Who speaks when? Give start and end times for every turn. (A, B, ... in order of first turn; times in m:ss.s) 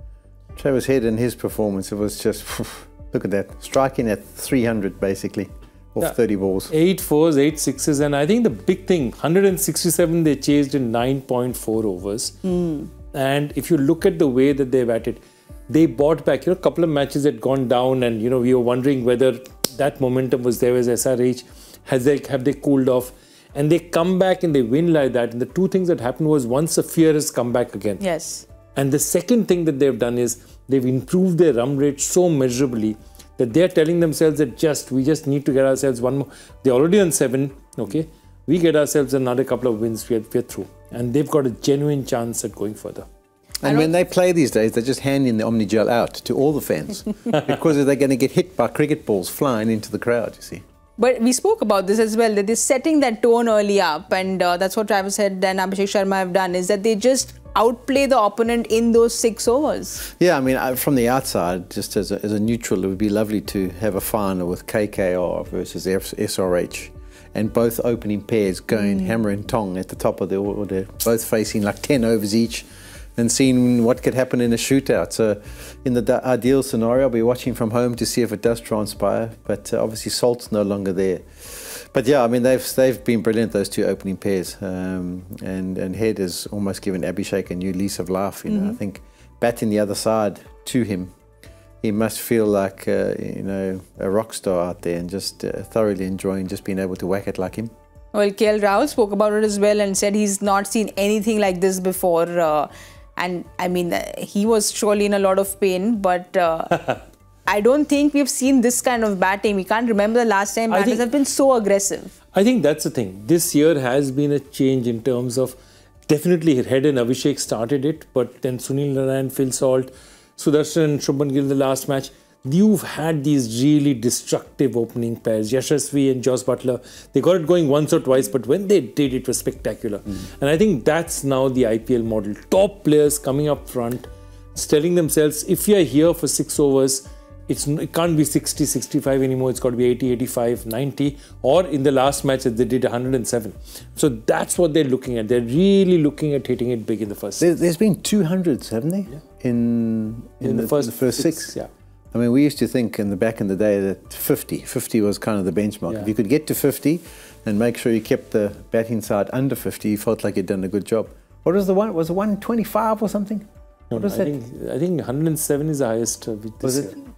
0:00.6-0:06.7 A
0:06.7-0:12.4 B
0:12.5-0:12.9 C
0:13.1-0:28.0 B
0:28.0-0:28.5 C
0:28.8-0:43.1 B
0:43.6-0:50.6 A
0:43.6-0:44.0 C
0:51.0-1:00.0 C
1:00.1-1:31.1 A
1:28.5-1:28.8 C
1:31.8-1:37.7 A
1:38.1-1:46.8 C
1:47.5-1:52.2 C
1:50.7-1:51.0 B
1:52.3-2:27.5 B
2:27.4-2:31.5 A
2:30.4-2:31.7 B
2:32.1-2:44.3 A
2:43.9-2:47.0 B
2:46.6-2:46.9 A